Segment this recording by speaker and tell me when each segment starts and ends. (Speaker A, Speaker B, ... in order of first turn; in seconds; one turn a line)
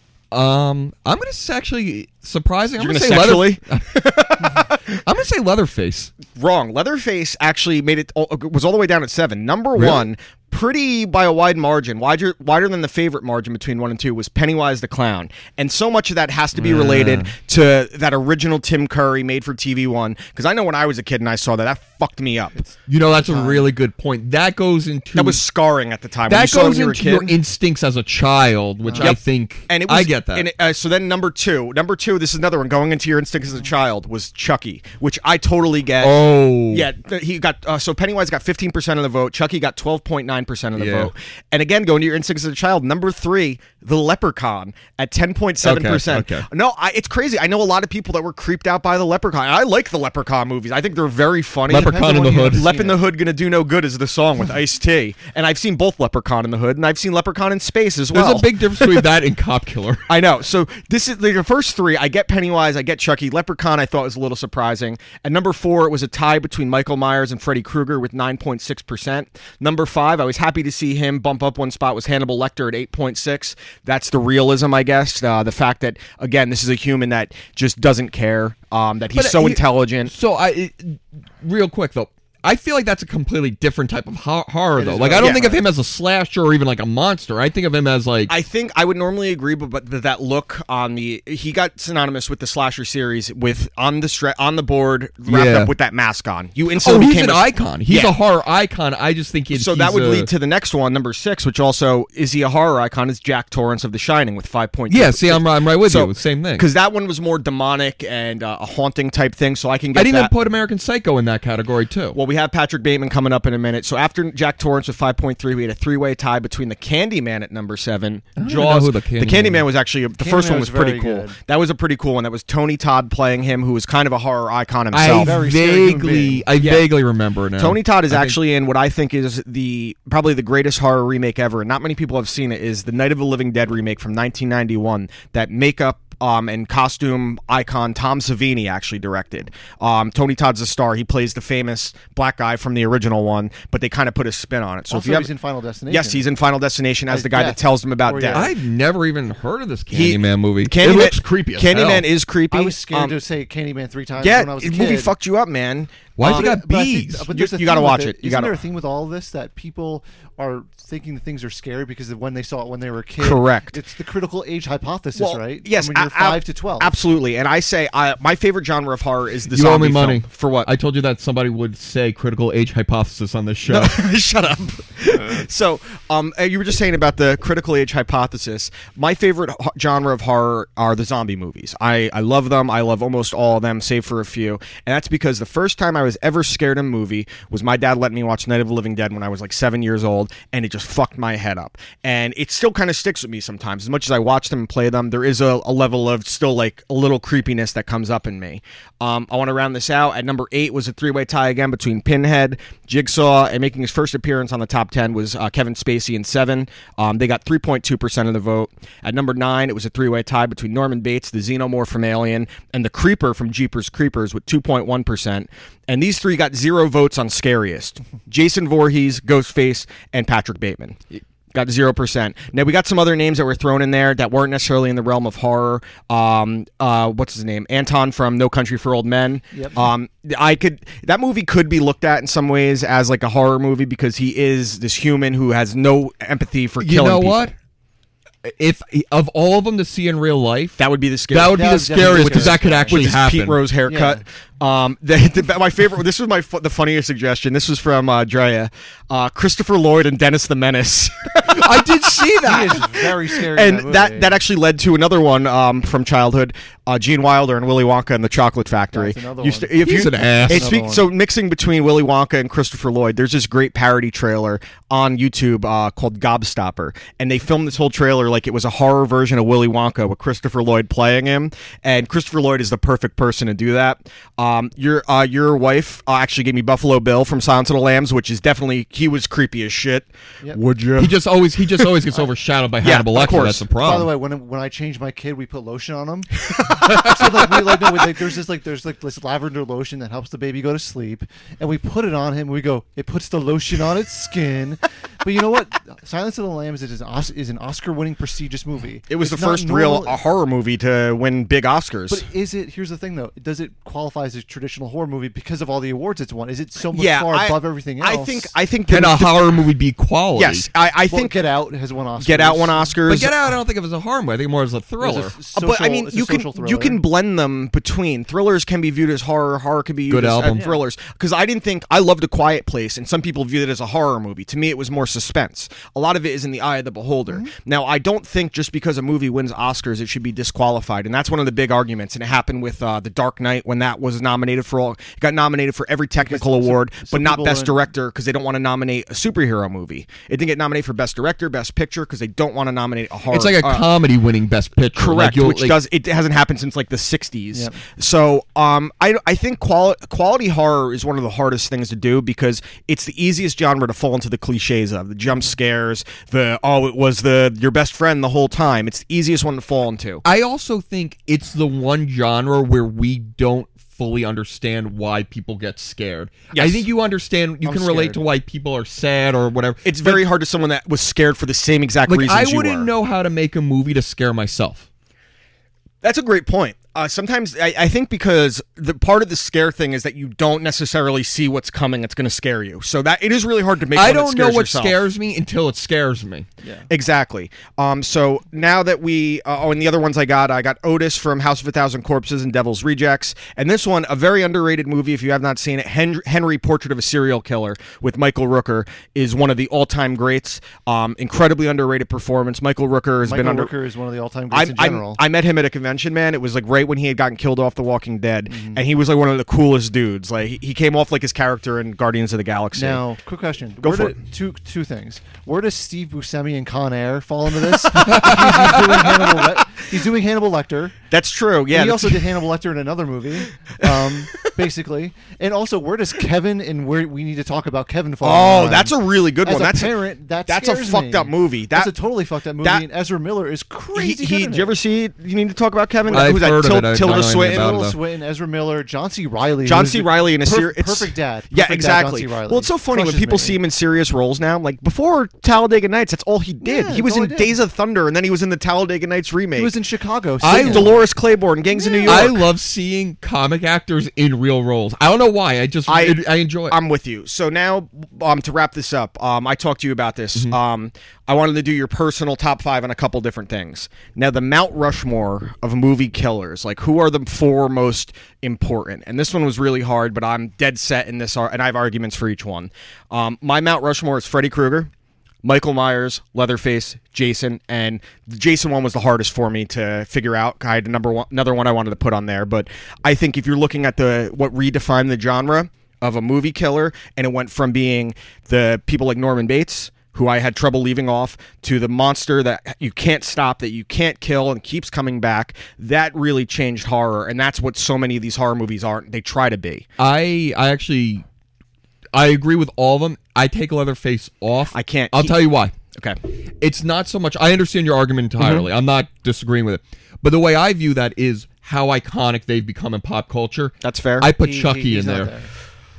Speaker A: 0.3-6.1
Speaker B: 2.8-4.8
Speaker B: 6.3-22.5
Speaker A: 9.8-10.1
Speaker A: 16.6-17.3
Speaker C: 22.5-23.7
Speaker A: 22.9-25.4
Speaker B: 25.1-27.3
Speaker A: 26.3-30.5
Speaker C: 28.8-29.1
Speaker B: 29.0-36.2
Speaker A: 36.0-36.9
Speaker B: 36.7-59.1
Speaker A: 40.8-41.1
Speaker A: 45.6-46.5
Speaker A: 51.7-52.6
Speaker C: 51.7-53.0
Speaker A: 58.1-60.0
Speaker B: 60.1-80.1
Speaker A: 79.1-88.3
Speaker C: 84.8-85.6
Speaker B: 85.2-85.6
Speaker B: 88.3-98.2
Speaker A: 95.3-95.7
Speaker A: 96.8-100.3
Speaker B: 99.5-110.3
Speaker A: 104.9-106.7
Speaker A: 109.9-112.2
Speaker B: 112.1-125.4
Speaker A: 118.4-119.6
Speaker C: 120.2-121.4
Speaker A: 124.9-128.3
Speaker C: 125.0-126.4
Speaker B: 126.6-126.9
Speaker B: 127.6-145.3
Speaker C: 144.9-146.2
Speaker B: 145.9-148.5
Speaker C: 147.1-148.5
Speaker A: 148.3-152.1
Speaker B: 149.9-153.2
Speaker C: 152.5-155.1
Speaker B: 154.2-156.6
Speaker A: 156.2-157.3
Speaker C: 156.2-166.9
Speaker B: 157.3-158.6
Speaker B: 163.2-163.8
Speaker B: 165.2-170.7
Speaker A: 169.5-174.0
Speaker B: 173.7-221.0
Speaker B: 221.5-237.5
Speaker C: 229.5-229.8
Speaker A: 236.8-237.5
Speaker A: 238.4-243.6
Speaker B: 240.8-281.2
Speaker C: 241.5-243.1
Speaker C: 243.9-244.2
Speaker A: 251.5-252.8
Speaker C: 252.4-254.4
Speaker C: 258.9-261.1
Speaker A: 259.8-260.7
Speaker A: 281.0-284.1
Speaker B: 282.8-283.6
Speaker C: 283.8-286.3
Speaker C: 286.8-300.2
Speaker B: 299.1-302.2
Speaker C: 302.1-308.5
Speaker B: 306.9-309.6
Speaker A: 308.9-310.7
Speaker B: 310.4-311.4
Speaker C: 311.1-313.0
Speaker B: 312.2-313.5
Speaker A: 313.1-315.3
Speaker C: 315.0-317.0
Speaker B: 315.5-343.9
Speaker A: 320.1-320.6
Speaker C: 320.5-320.8
Speaker C: 336.2-337.8
Speaker A: 343.3-345.8
Speaker B: 344.9-360.2
Speaker C: 347.5-347.8
Speaker A: 360.2-370.2
Speaker B: 366.5-366.9
Speaker C: 367.6-368.2
Speaker B: 369.8-372.9
Speaker A: 372.1-374.9
Speaker B: 376.0-385.0
Speaker A: 383.9-386.5
Speaker C: 386.6-386.9
Speaker B: 386.9-403.7
Speaker C: 403.2-405.2
Speaker B: 404.5-413.0
Speaker C: 408.5-408.8
Speaker C: 412.7-420.9
Speaker B: 413.8-414.2
Speaker A: 417.9-419.0
Speaker B: 421.1-422.3
Speaker C: 421.7-434.8
Speaker B: 423.8-424.2
Speaker B: 428.2-431.9
Speaker B: 433.9-437.7
Speaker A: 436.1-438.0
Speaker C: 437.0-443.6
Speaker B: 439.6-449.7
Speaker C: 446.6-447.6
Speaker C: 449.6-451.0
Speaker A: 450.4-450.9
Speaker B: 450.6-452.4
Speaker C: 451.7-452.3
Speaker A: 452.0-456.8
Speaker B: 455.9-474.9
Speaker B: 475.4-499.9
Speaker A: 500.0-501.2
Speaker A: 502.1-505.7
Speaker B: 504.7-505.4
Speaker B: 505.9-506.2
Speaker A: 506.6-515.3
Speaker B: 508.4-508.6
Speaker B: 513.8-514.3
Speaker C: 514.4-515.5